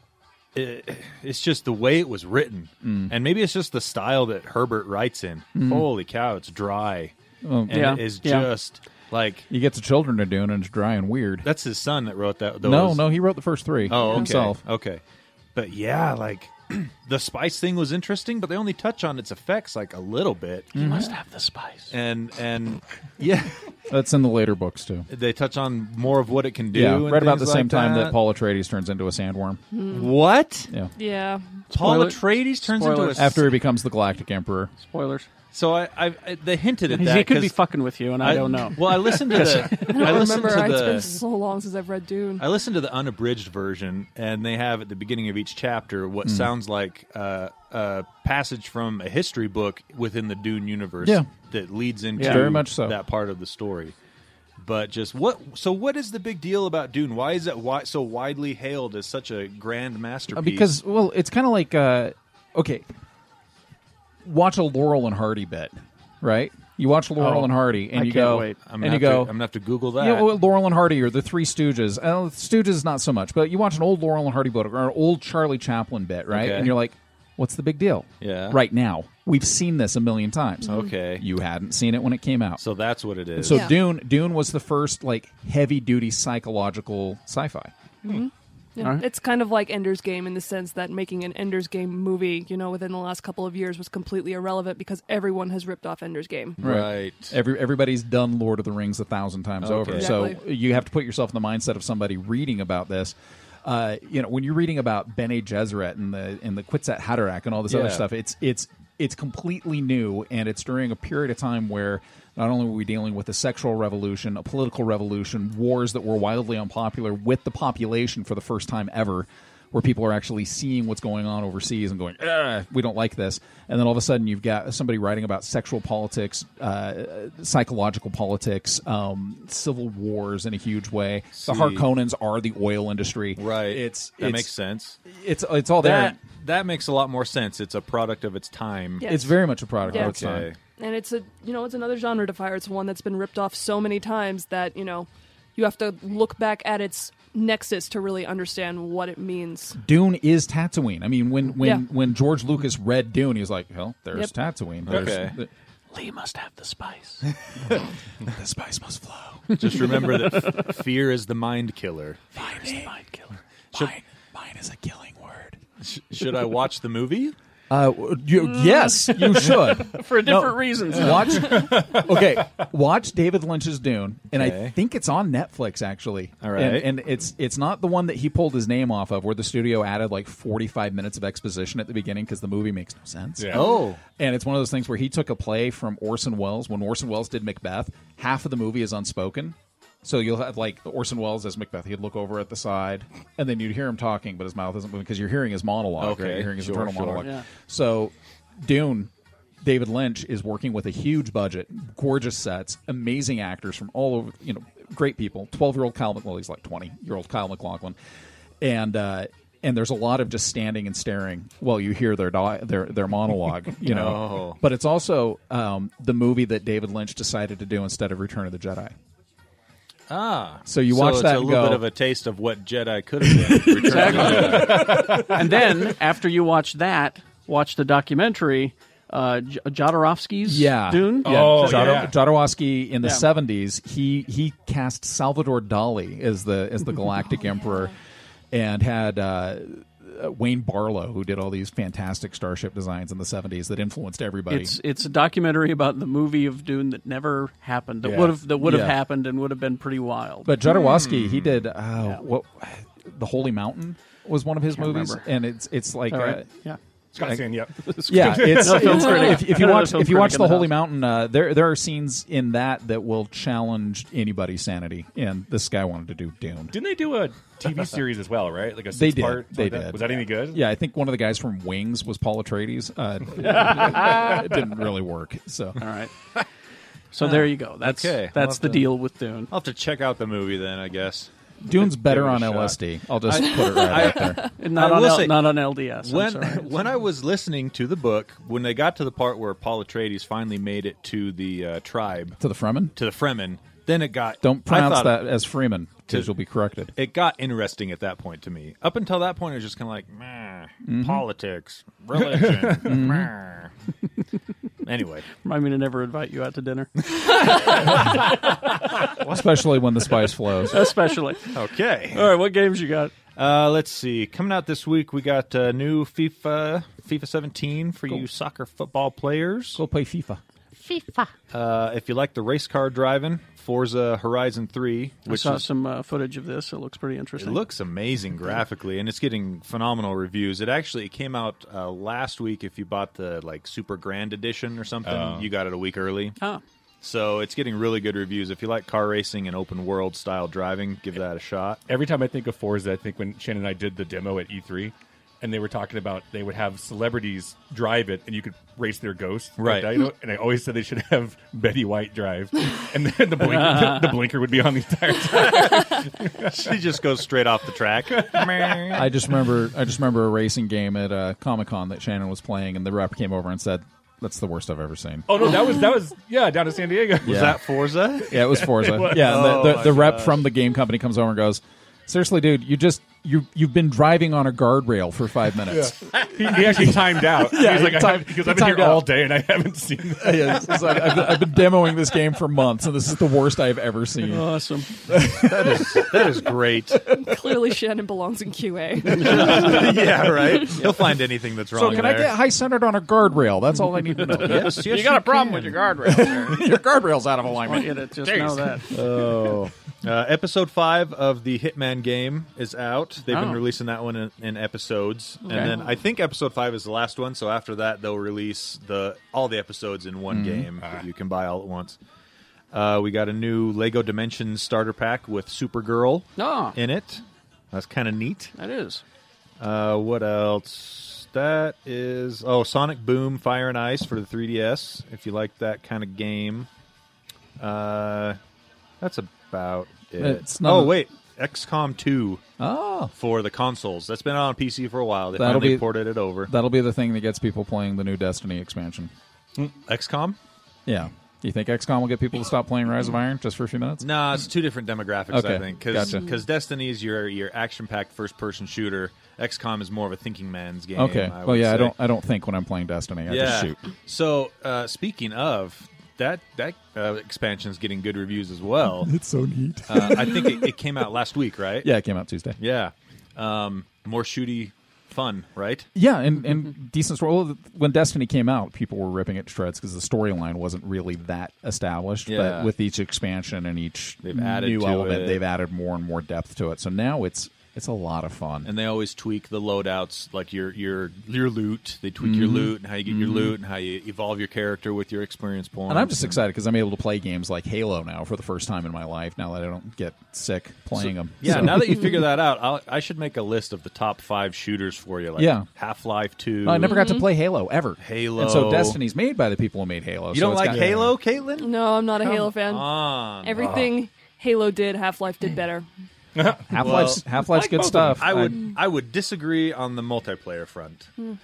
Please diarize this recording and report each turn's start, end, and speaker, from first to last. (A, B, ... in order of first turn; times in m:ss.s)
0:00.5-0:07.1 A
0:02.8-0:03.1 B
0:05.5-0:05.9 B
0:07.4-0:08.0 B
0:07.7-0:09.5 A
0:07.7-0:08.5 C
0:09.5-0:11.5 B
0:11.4-0:13.1 A
0:12.6-0:14.6 B
0:13.9-0:15.0 A
0:15.5-0:20.7 A
0:20.7-0:21.1 B
0:20.7-0:21.9 C
0:21.9-0:23.6 A
0:23.9-0:25.1 B
0:25.1-0:28.2 A
0:26.7-0:29.6 B
0:29.7-0:30.1 D
0:29.9-0:30.7 A
0:31.0-0:31.4 D
0:31.7-0:33.5 A
0:31.7-0:33.4 C
0:33.2-0:34.7 B
0:34.8-0:35.3 C
0:35.5-0:37.6 A
0:36.9-0:40.3 C
0:38.2-0:41.2 A
0:39.7-0:42.4 D
0:42.4-0:53.9 A
0:46.2-0:46.5 B
0:51.0-0:51.3 B
0:52.2-0:52.5 C
0:52.2-0:53.0 B
0:54.6-1:00.7 A
1:00.3-1:02.8 B
1:04.2-1:09.3 B
1:07.2-1:08.6 C
1:08.6-1:10.3 A
1:10.0-1:22.6 B
1:16.3-1:16.8 A
1:18.2-1:18.6 A
1:20.7-1:21.2 A
1:22.6-1:23.7 A
1:23.4-1:27.7 B
1:23.5-1:23.7 D
1:28.0-1:36.6 D
1:28.8-1:29.0 C
1:36.6-1:37.4 A
1:36.6-2:14.5 B
1:39.6-1:40.3 A
1:39.9-1:40.4 D
1:47.7-1:48.0 A
2:11.3-2:11.8 A
2:13.4-2:15.0 A
2:15.1-2:16.2 B
2:15.8-2:19.1 A
2:19.0-2:19.3 D
2:19.0-2:20.5 B
2:19.9-2:20.2 D
2:19.9-2:20.6 A
2:20.8-2:29.8 D
2:29.8-2:35.5 B
2:31.6-2:31.8 D
2:34.9-2:35.4 A
2:35.9-2:37.2 C
2:38.3-2:39.7 B
2:39.5-2:42.3 A
2:40.3-2:40.6 C
2:42.4-2:43.3 C
2:42.4-2:42.9 B
2:43.7-2:45.6 B
2:45.8-2:47.3 A
2:47.7-3:19.1 B
2:48.8-2:51.6 C
2:54.3-2:54.8 A
2:56.4-2:56.9 A
3:03.4-3:03.6 E
3:03.5-3:04.0 A
3:16.0-3:17.3 A
3:19.6-3:28.0 B
3:28.6-3:38.9 B
3:33.8-3:34.6 A
3:40.1-3:44.9 A
3:40.6-3:41.9 B
3:43.3-3:45.2 B
3:43.8-3:52.0 C
3:44.4-3:45.3 E
3:50.4-3:57.9 B
3:51.2-3:52.1 E
3:58.5-4:04.8 B
4:04.5-4:10.5 C
4:08.0-4:08.4 E
4:08.5-4:09.0 B
4:10.4-4:16.5 B
4:10.8-4:11.5 A
4:14.7-4:15.2 C
4:16.1-4:16.8 C
4:17.1-4:19.1 E
4:17.8-4:20.7 C
4:18.1-4:26.8 B
4:26.7-4:30.6 E
4:28.9-4:35.8 B
4:33.5-4:34.4 C
4:35.8-4:36.1 C
4:37.1-4:39.5 C
4:37.2-4:39.0 A
4:39.5-4:52.4 A
4:41.6-4:44.4 B
4:44.6-4:46.7 C
4:52.4-4:53.0 B
4:53.0-4:55.2 A
4:54.4-4:56.9 B
4:57.0-5:03.7 A
5:00.8-5:01.2 B
5:02.8-5:03.3 B
5:04.8-5:05.2 A
5:05.4-5:07.5 C
5:07.1-5:08.2 A
5:09.2-5:10.9 B
5:10.7-5:11.5 C
5:11.5-5:12.3 A
5:12.1-5:13.1 C
5:13.4-5:19.8 A
5:19.8-5:20.4 B
5:20.9-5:25.6 A
5:25.2-5:27.6 C
5:27.4-5:36.4 A
5:35.0-5:35.5 E
5:37.0-5:41.8 A
5:41.9-5:56.8 E
5:49.6-5:49.9 A
5:53.4-5:54.2 C
5:56.5-5:59.1 A
5:58.1-5:59.0 E
5:58.9-6:05.4 B
6:05.3-6:07.6 E
6:07.2-6:08.4 A
6:07.2-6:07.6 B
6:08.2-6:19.1 B
6:08.3-6:09.8 E
6:09.1-6:10.4 A
6:15.7-6:21.2 E
6:20.2-6:24.5 B
6:24.2-6:24.9 C
6:25.1-6:26.4 B
6:25.3-6:27.0 A
6:27.1-6:30.0 D
6:29.1-6:32.3 A
6:29.2-6:29.8 C
6:30.7-6:30.9 C
6:31.7-6:34.9 B
6:34.3-6:36.4 A
6:34.4-6:36.6 C
6:36.0-6:39.1 B
6:37.6-6:38.9 C
6:38.9-6:52.0 A
6:43.2-6:43.6 C
6:50.3-6:50.7 B
6:52.7-6:58.5 A
6:56.4-6:56.8 C
6:58.5-6:59.0 C
6:59.6-7:06.7 A
7:07.6-7:08.4 A
7:09.0-7:12.4 A
7:10.2-7:11.0 B
7:12.6-7:13.1 B
7:13.1-7:16.5 A
7:15.3-7:19.1 B
7:19.8-7:20.4 A
7:20.8-7:24.4 B
7:24.0-7:31.9 A
7:25.3-7:26.2 B
7:31.0-7:33.8 B
7:33.3-7:39.1 A
7:39.0-7:40.7 B
7:39.9-7:41.9 A
7:41.8-7:42.6 B
7:42.6-7:45.9 A
7:45.9-7:58.7 B
7:52.3-7:52.7 A
7:54.2-7:55.4 A
7:58.6-8:06.4 A
8:02.2-8:03.6 B
8:05.9-8:12.2 B
8:11.0-8:17.0 A
8:15.4-8:15.7 B
8:16.6-8:21.1 B
8:16.8-8:17.2 D
8:18.0-8:19.0 A
8:20.3-8:23.9 A
8:21.6-8:25.8 D
8:23.6-8:23.9 E
8:26.4-8:28.2 E
8:26.7-8:28.6 B
8:26.7-8:31.1 A